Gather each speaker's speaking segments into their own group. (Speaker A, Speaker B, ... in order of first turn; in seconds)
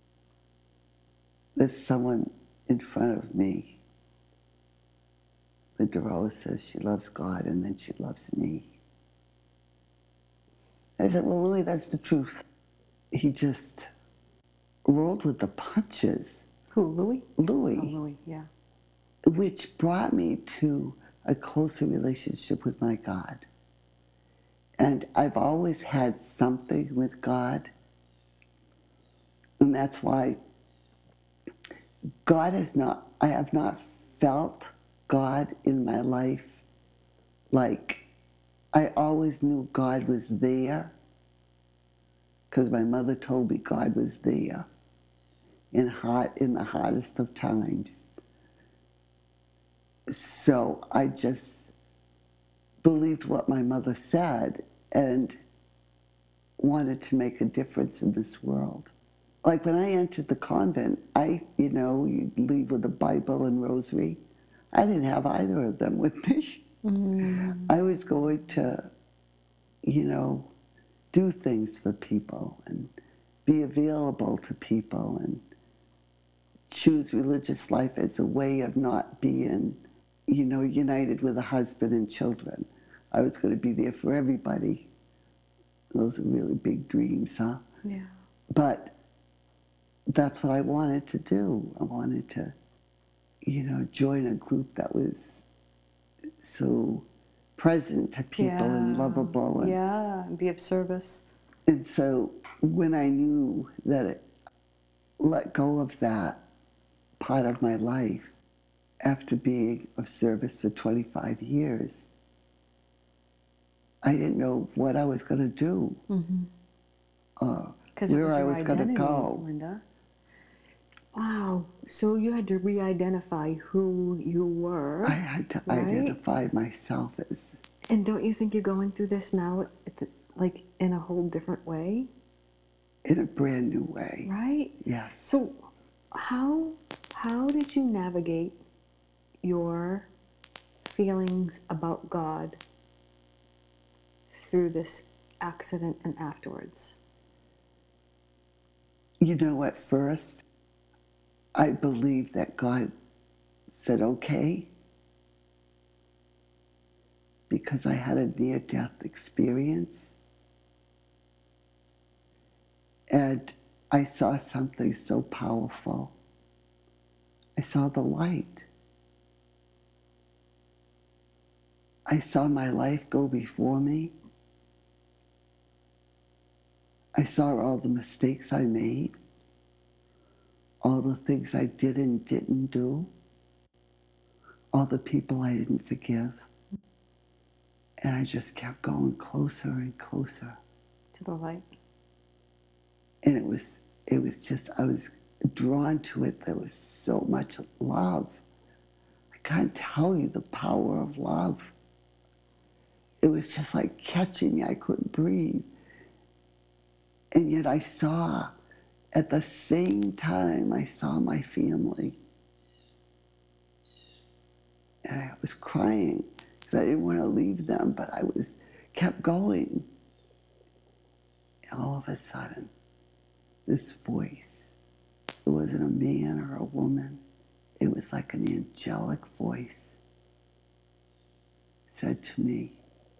Speaker A: 1.6-3.8, 5.8-8.7, 11.0-12.4, 13.1-13.9, 14.9-16.4, 17.4-17.9, 19.3-23.4, 24.8-27.7, 29.6-30.4, 32.2-36.6, 37.5-38.0, 38.7-40.9, 42.5-44.7, 45.7-48.0, 50.1-51.6, 52.8-55.4, 56.6-58.9, 59.4-64.2, 64.7-66.7, 67.4-68.9, 69.8-70.5, 71.1-72.9, 73.5-75.4, 76.7-84.9, 85.9-87.6, 88.5-89.0, 90.1-92.5, 93.4-95.4, 96.4-99.8, 101.7-104.2, 105.2-106.4, 107.2-108.3, 109.0-112.0, 114.0-116.0, 117.4-119.5, 125.0-127.5, 133.1-135.3, 149.2-150.4, 151.6-152.9, 153.7-154.7, 157.5-160.1, 163.1-166.1, 167.6-168.7, 172.1-174.1, 177.2-179.1, 180.8-183.1, 184.7-186.4, 188.0-190.6, 193.2-198.4, 199.3-201.7, 203.2-205.7, 207.3-208.5, 209.1-212.2, 215.1-219.9, 221.7-222.7, 223.7-224.6, 225.4-227.2, 227.8-229.8, 231.9-232.8
Speaker B: 16.7-18.5, 66.8-67.7, 87.8-88.1, 98.4-101.3, 116.1-116.5, 118.0-119.8, 121.1-126.2, 127.9-132.1, 134.2-138.6, 139.4-140.1, 140.8-142.6, 144.3-147.0, 191.1-191.6